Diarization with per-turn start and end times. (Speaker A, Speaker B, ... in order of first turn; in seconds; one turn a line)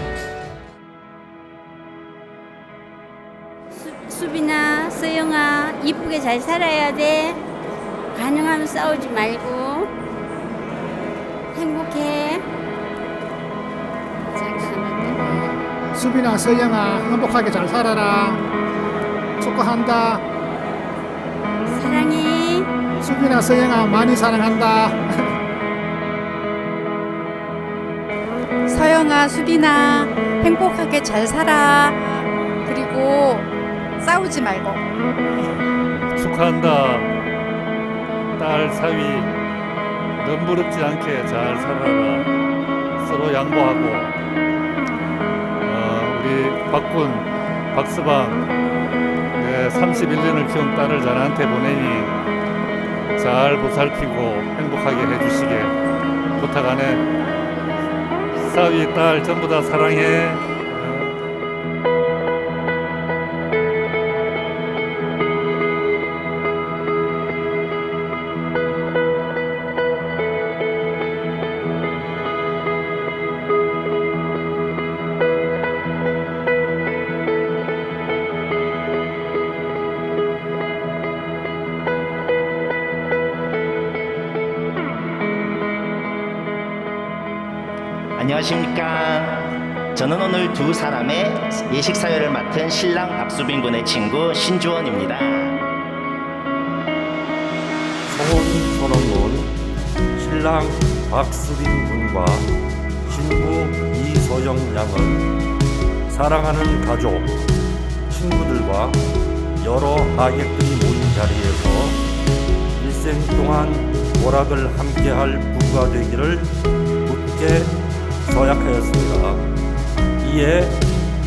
Speaker A: 3.8-7.4
Speaker A: 8.1-9.9
Speaker A: 11.5-12.4
Speaker A: 14.3-15.2
Speaker B: 15.4-18.4
Speaker B: 19.4-20.2
Speaker A: 21.7-22.7
Speaker B: 23.0-25.1
Speaker C: 28.7-34.8
Speaker D: 36.1-37.1
Speaker D: 38.4-39.3
Speaker D: 40.2-42.3
Speaker D: 43.0-44.1
Speaker D: 45.6-48.4
Speaker D: 49.4-52.1
Speaker D: 53.2-55.7
Speaker D: 56.4-57.0
Speaker D: 58.4-61.1
Speaker E: 88.2-95.6
Speaker F: 98.1-99.6
Speaker F: 100.2-105.4
Speaker F: 106.1-107.5
Speaker F: 108.1-112.0
Speaker F: 112.8-119.5
Speaker F: 120.2-120.9